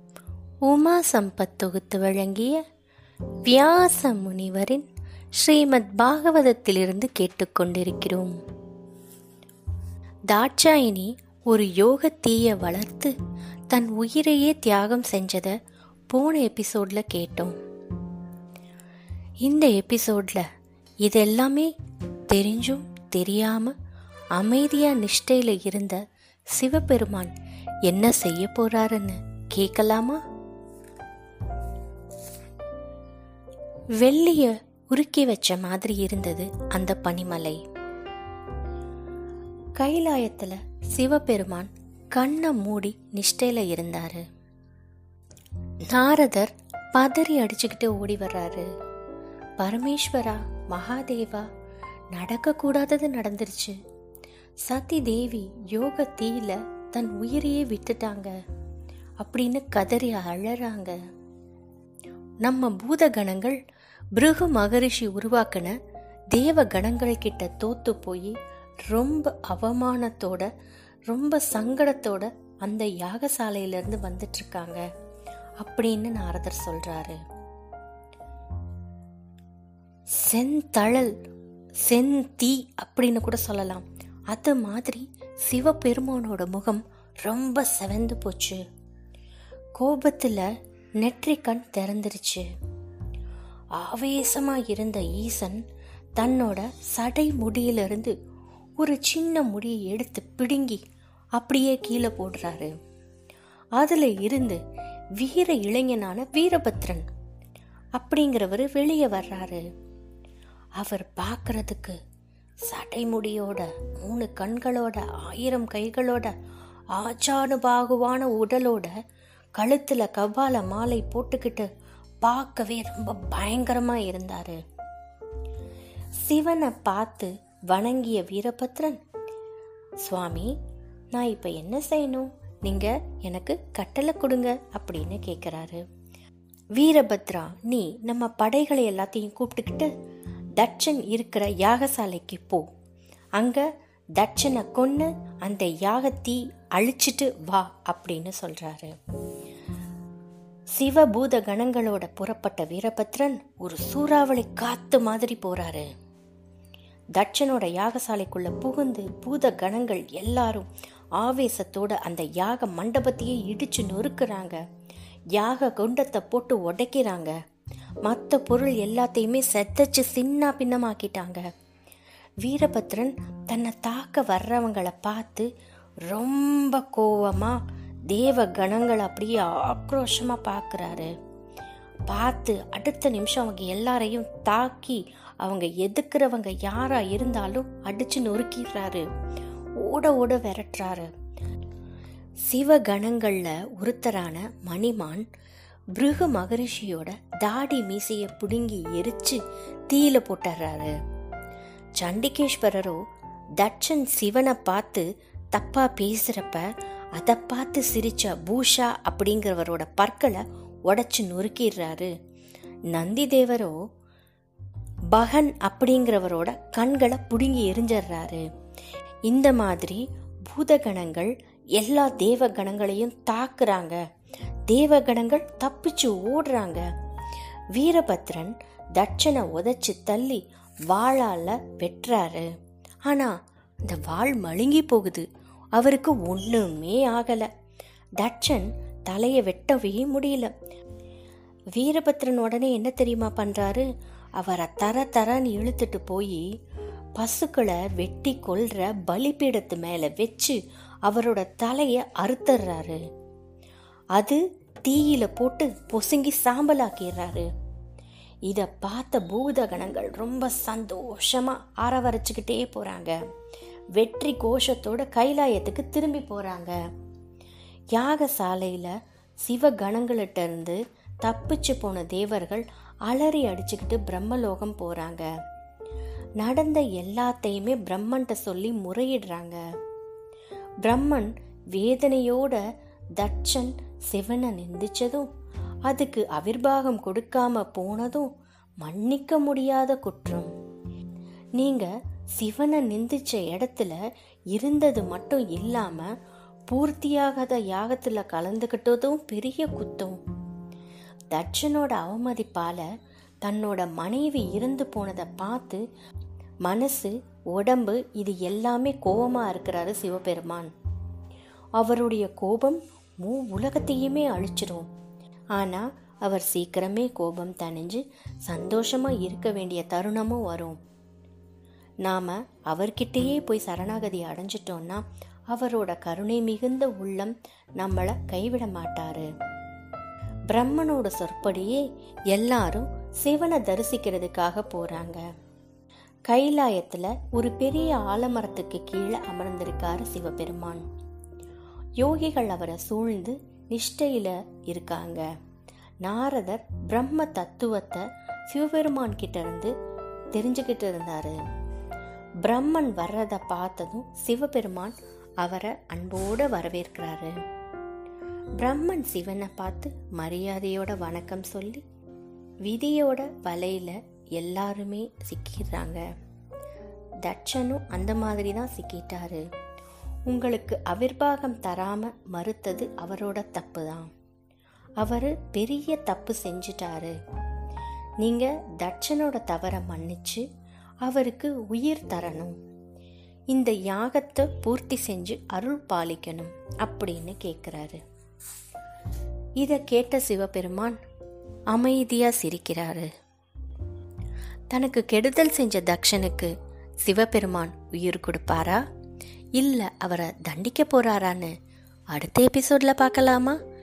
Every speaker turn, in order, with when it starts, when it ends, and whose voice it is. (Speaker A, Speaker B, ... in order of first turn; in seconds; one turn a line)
Speaker A: 0.7-2.6
Speaker A: 3.4-8.4
Speaker A: 10.3-13.1
Speaker A: 13.7-15.6
Speaker A: 16.1-17.6
Speaker A: 19.4-20.5
Speaker A: 21.0-21.7
Speaker A: 22.3-23.7
Speaker A: 24.3-26.0
Speaker A: 26.5-27.3
Speaker A: 27.9-30.2
Speaker A: 34.0-37.6
Speaker A: 39.8-44.2
Speaker A: 45.9-48.7
Speaker A: 49.6-51.5
Speaker A: 52.1-53.8
Speaker A: 54.6-58.3
Speaker A: 59.2-61.0
Speaker A: 62.4-63.6
Speaker A: 64.2-65.8
Speaker A: 66.3-68.4
Speaker A: 68.9-70.5
Speaker A: 71.1-74.8
Speaker A: 75.6-77.2
Speaker A: 80.1-81.2
Speaker A: 81.8-88.6
Speaker A: 89.8-90.5
Speaker A: 91.0-92.5
Speaker A: 93.8-95.6
Speaker A: 96.2-98.1
Speaker A: 98.8-100.8
Speaker A: 101.4-102.7
Speaker A: 103.8-104.6
Speaker A: 105.2-107.1
Speaker A: 108.0-109.7
Speaker A: 110.8-112.0
Speaker A: 112.7-116.3
Speaker A: 116.9-118.9
Speaker A: 119.5-121.7
Speaker A: 122.2-124.6
Speaker A: 126.2-129.0
Speaker A: 130.0-130.5
Speaker A: 131.1-135.8
Speaker A: 136.8-139.9
Speaker A: 140.6-142.7
Speaker A: 143.4-143.7
Speaker A: 144.2-148.9
Speaker A: 150.8-155.9
Speaker A: 157.1-164.6
Speaker A: 165.3-167.3
Speaker A: 168.0-171.5
Speaker A: 172.4-175.5
Speaker A: 176.1-181.1
Speaker A: 182.1-189.1
Speaker A: 189.8-191.1
Speaker A: 192.5-195.3
Speaker A: 195.9-200.9
Speaker A: 202.0-203.0
Speaker A: 203.6-212.1
Speaker A: 212.9-213.8
Speaker A: 215.1-218.4
Speaker A: 219.3-224.0
Speaker A: 224.7-226.8
Speaker A: 227.7-232.5
Speaker A: 233.1-233.3
Speaker A: 233.8-237.5
Speaker A: 238.2-240.5
Speaker A: 241.8-246.4
Speaker A: 247.2-253.0
Speaker A: 254.2-257.5
Speaker A: 258.5-263.2
Speaker A: 263.9-266.8
Speaker A: 267.9-275.3
Speaker A: 276.4-279.6
Speaker A: 280.8-282.6
Speaker A: 283.2-285.3
Speaker A: 285.9-288.3
Speaker A: 288.8-290.5
Speaker A: 291.6-294.0
Speaker A: 294.5-296.1
Speaker A: 296.7-300.2
Speaker A: 301.3-302.9
Speaker A: 303.4-305.8
Speaker A: 306.6-310.7
Speaker A: 311.8-314.9
Speaker A: 315.5-320.8
Speaker A: 322.0-329.3
Speaker A: 330.5-335.2
Speaker A: 336.3-340.8
Speaker A: 342.0-345.3
Speaker A: 346.0-349.7
Speaker A: 350.3-351.4
Speaker A: 352.4-357.4
Speaker A: 358.6-361.8
Speaker A: 362.6-366.0
Speaker A: 367.2-369.4
Speaker A: 370.3-374.1
Speaker A: 375.0-377.2
Speaker A: 378.2-380.4
Speaker A: 381.0-382.6
Speaker A: 383.5-388.0
Speaker A: 389.6-391.0
Speaker A: 391.7-393.1
Speaker A: 394.7-398.8
Speaker A: 399.6-401.5
Speaker A: 402.1-403.6